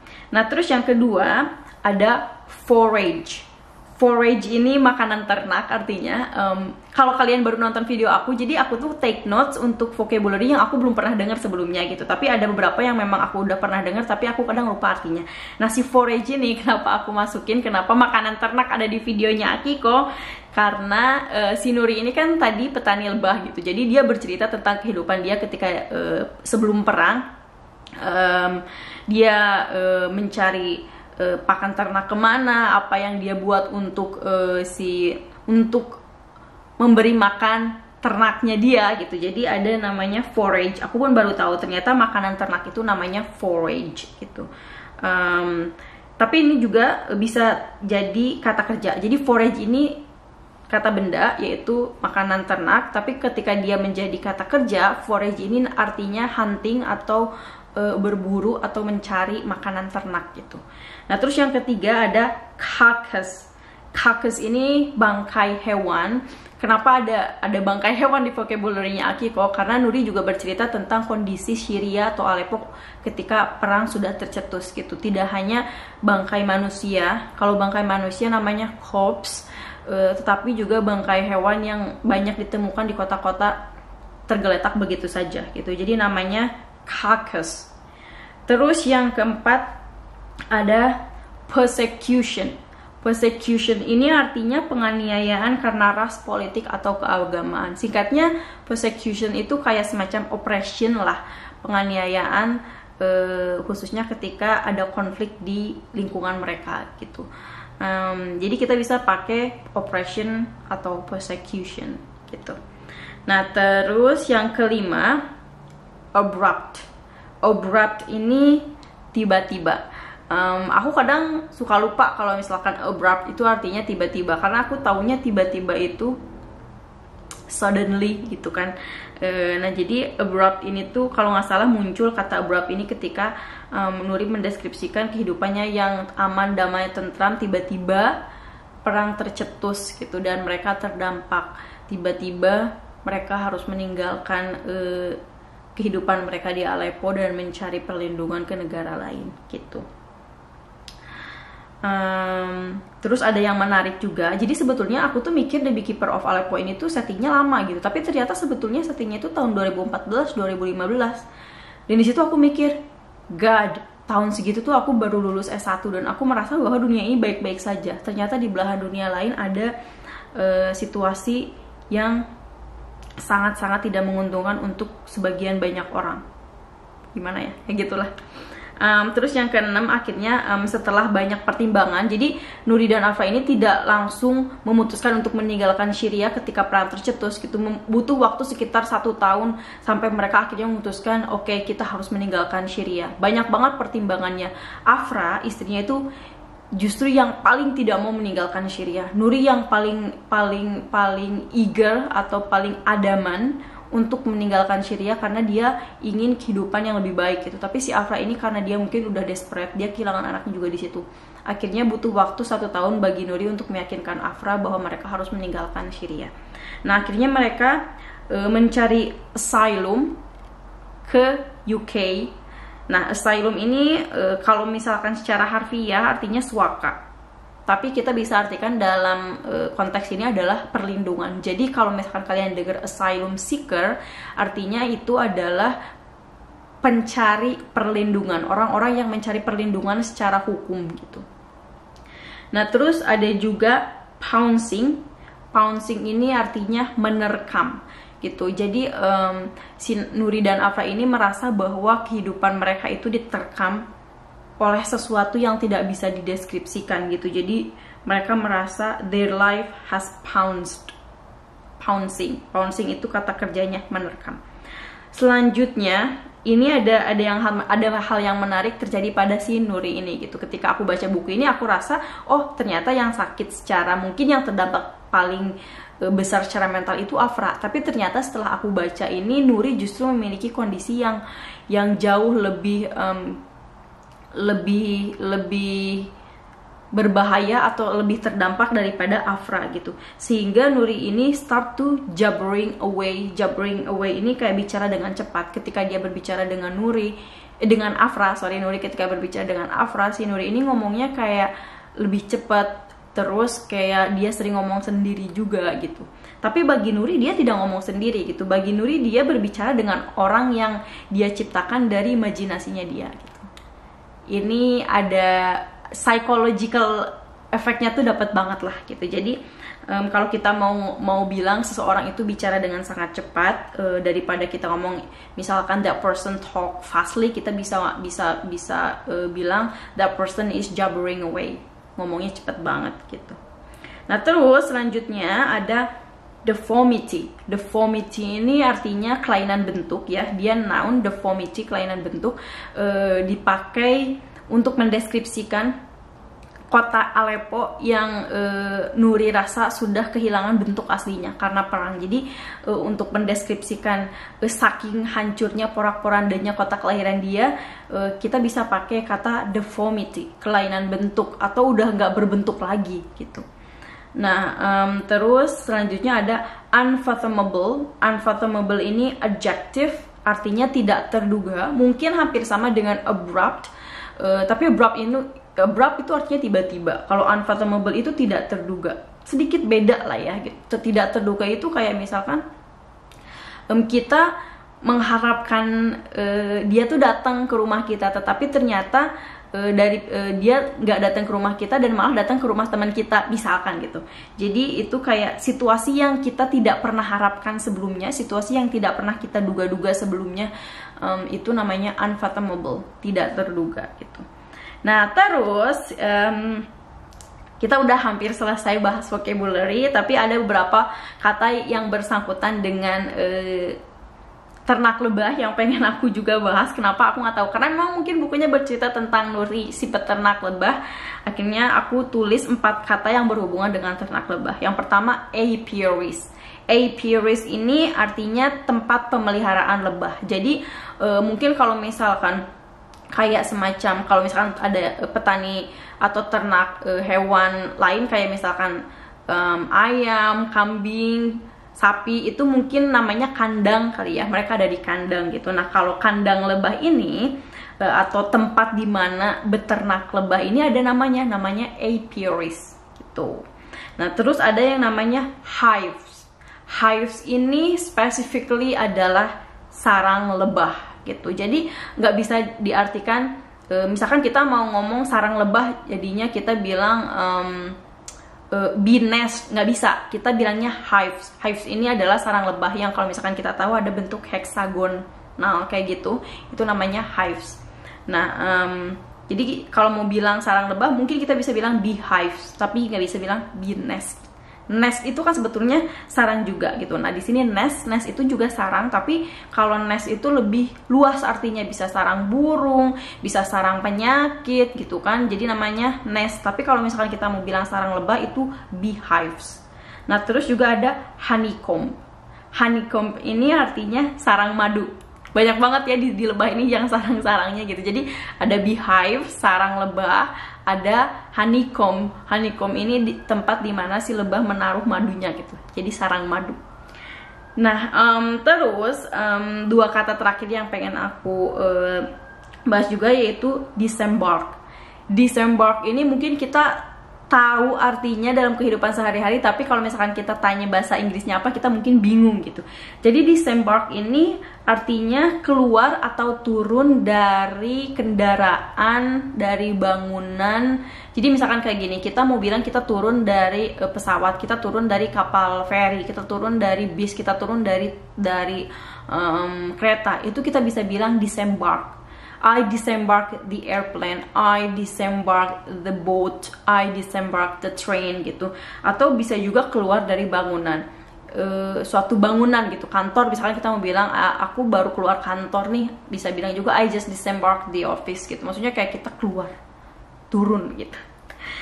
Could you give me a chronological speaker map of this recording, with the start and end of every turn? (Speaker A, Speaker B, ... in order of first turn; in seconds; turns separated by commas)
Speaker A: 0.3-3.5, Speaker A: 4.0-27.2, Speaker A: 28.0-36.0, Speaker A: 36.8-44.5, Speaker A: 45.0-50.0, Speaker A: 50.7-83.5, Speaker A: 84.3-87.7, Speaker A: 88.5-89.7, Speaker A: 90.5-107.3, Speaker A: 107.8-112.6, Speaker A: 113.3-115.2, Speaker A: 116.1-116.9, Speaker A: 117.4-126.2, Speaker A: 127.5-138.1, Speaker A: 138.8-145.2, Speaker A: 145.8-149.8, Speaker A: 151.8-161.2, Speaker A: 161.9-162.8, Speaker A: 163.3-169.7, Speaker A: 170.3-172.2, Speaker A: 173.2-176.2, Speaker A: 177.1-178.1, Speaker A: 178.8-196.0, Speaker A: 196.8-216.3, Speaker A: 216.8-220.2, Speaker A: 221.1-222.3, Speaker A: 222.9-227.0, Speaker A: 227.7-235.7, Speaker A: 236.8-241.2, Speaker A: 242.5-245.0, Speaker A: 245.5-253.8, Speaker A: 254.6-260.9, Speaker A: 261.8-264.4, Speaker A: 265.1-283.4, Speaker A: 284.4-286.1, Speaker A: 286.9-313.5, Speaker A: 314.3-319.4, Speaker A: 319.9-333.4, Speaker A: 334.1-335.9, Speaker A: 336.4-345.7, Speaker A: 346.7-363.4, Speaker A: 364.2-382.4, Speaker A: 383.7-384.3, Speaker A: 384.8-404.2, Speaker A: 404.8-406.7, Speaker A: 407.6-413.8, Speaker A: 414.7-432.4, Speaker A: 433.1-453.4, Speaker A: 454.0-467.8, Speaker A: 468.5-501.9, Speaker A: 502.6-516.6, Speaker A: 517.6-522.1, Speaker A: 522.7-524.6, Speaker A: 525.1-560.8, Speaker A: 561.3-569.5, Speaker A: 570.3-571.0